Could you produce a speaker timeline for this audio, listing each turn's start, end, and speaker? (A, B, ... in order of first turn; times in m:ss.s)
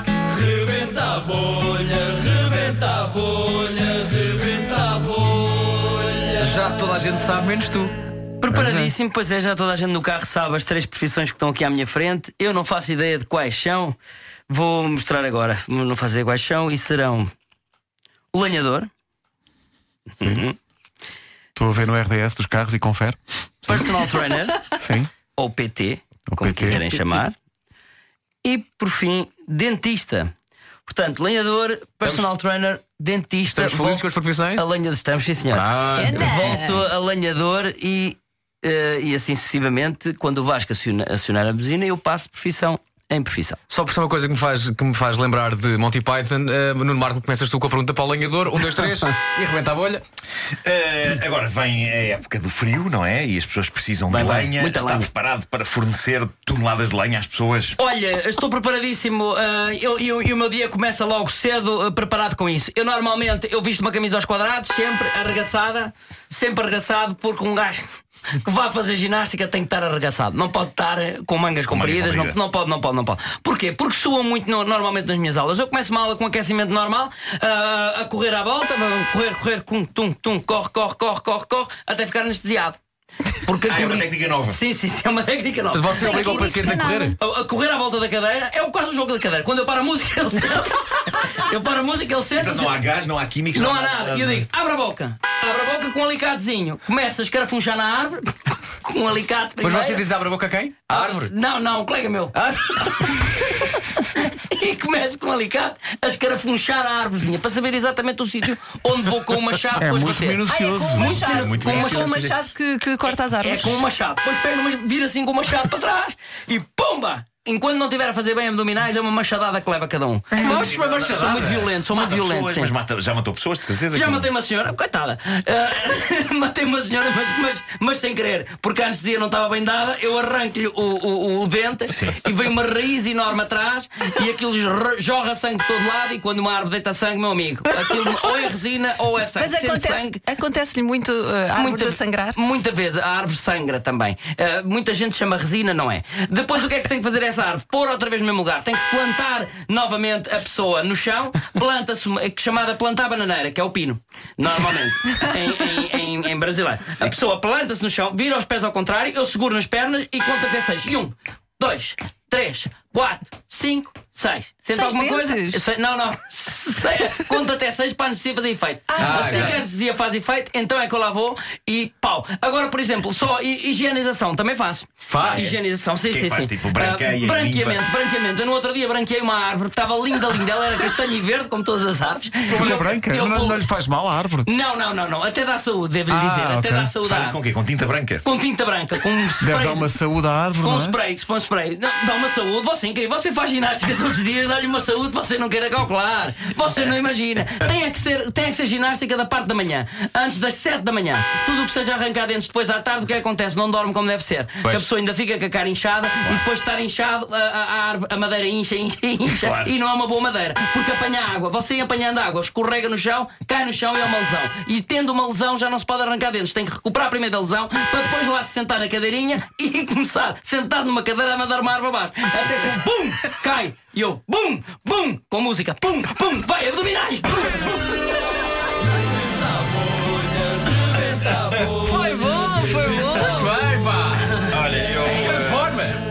0:00.3-0:06.3 A
0:06.4-0:07.9 B
0:08.4-0:14.0 C
0:08.5-0:08.9 B
0:14.5-0:17.3 C
0:18.3-0:18.9 C
0:20.2-0:20.6 C
0:21.6-0:23.8 D
0:23.6-0:24.8 C
0:24.7-0:25.1 D
0:25.3-0:27.3 C
0:26.3-0:27.2 D
0:28.4-0:30.3 C
0:30.8-0:43.6 C
0:33.5-0:34.6 B
0:35.5-0:36.6 B
0:35.9-0:36.8 E
0:43.7-0:50.0 B
0:50.6-0:57.8 F
0:54.1-0:55.1 C
0:57.8-1:07.8 C
1:08.4-1:22.8 C
1:11.7-1:12.4 F
1:23.4-1:32.8 C
1:23.7-1:24.6 F
1:25.7-1:27.2 B
1:25.9-1:27.1 E
1:32.3-1:34.4 F
1:33.5-1:40.0 C
1:39.6-1:41.3 B
1:40.9-1:50.4 C
1:42.3-1:43.4 B
1:49.7-1:51.9 D
1:50.5-1:53.8 E
1:50.9-1:52.3 F
1:51.0-1:52.3 C
1:53.2-2:02.7 C
2:00.4-2:01.7 B
2:00.4-2:04.3 F
2:03.9-2:20.2 C
2:11.9-2:12.2 F
2:19.4-2:22.4 E
2:21.5-3:03.7 C
2:44.7-2:45.6 E
2:48.9-2:49.6 E
2:49.0-2:49.6 B
2:55.1-2:55.5 B
2:55.2-2:55.5 F
2:56.1-2:57.8 F
3:02.5-3:04.5 D
3:04.4-3:07.4 C
3:06.1-3:06.9 D
3:07.0-3:08.2 F
3:08.2-3:09.9 C
3:09.4-3:11.0 D
3:10.6-3:47.9 C
3:29.3-3:29.7 F
3:49.9-3:51.8 A
3:51.7-3:53.6 E
3:52.9-3:53.4 C
3:53.0-3:56.0 B
3:54.5-3:55.8 F